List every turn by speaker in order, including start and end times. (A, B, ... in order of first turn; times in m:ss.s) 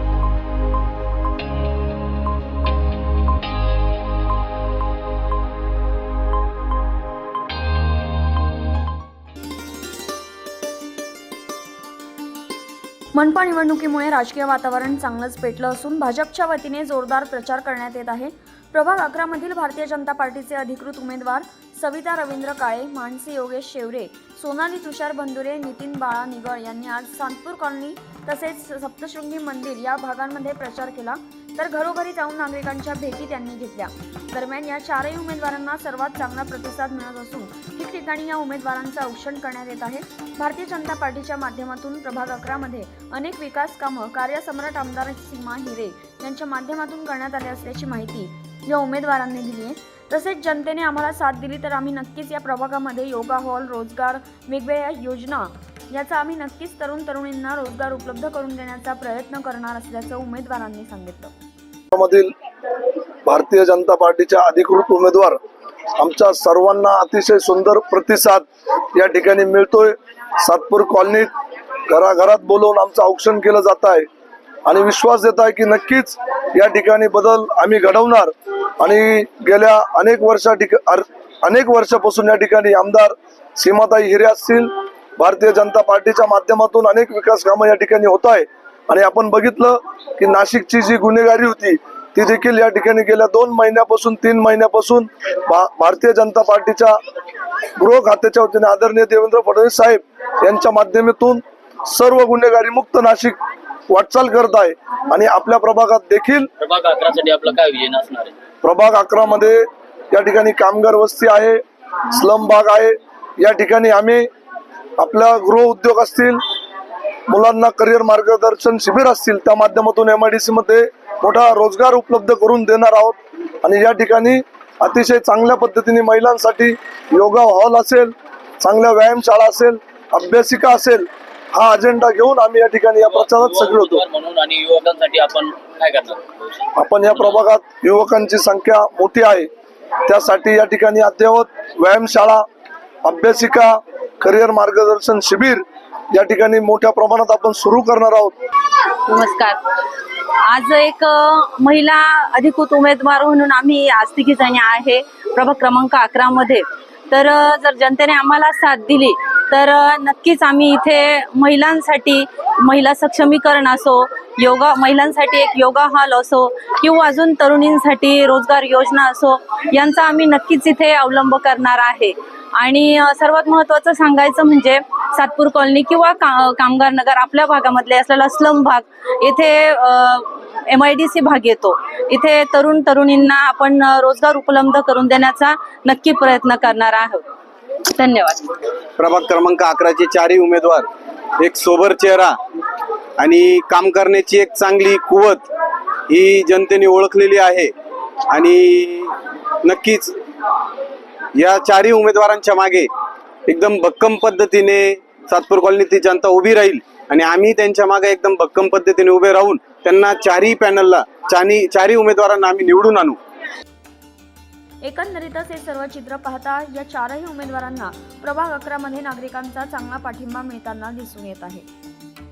0:13.1-1:01.3 A
1:01.9-1:02.3 B
1:03.2-1:05.4 B
1:06.0-1:11.3 B
1:11.9-1:14.0 B
1:14.6-1:37.0 B
1:37.8-1:43.4 B
1:43.9-1:46.5 B
1:46.6-1:48.3 C
1:48.6-1:54.3 B
1:55.0-1:56.4 B
1:57.3-2:14.0 B
2:13.1-2:16.6 C
2:16.7-2:19.5 B
2:20.0-2:22.4 B
2:23.0-2:28.3 B
2:29.1-2:29.6 D
2:30.5-3:07.2 D
3:07.9-3:08.5 D
3:09.0-3:10.9 E
3:11.4-3:12.3 E
3:13.2-3:15.4 E
3:16.1-3:17.7 E
3:18.3-3:20.1 E
3:21.4-3:22.9 E
3:23.5-3:33.2 E
3:34.8-3:41.7 A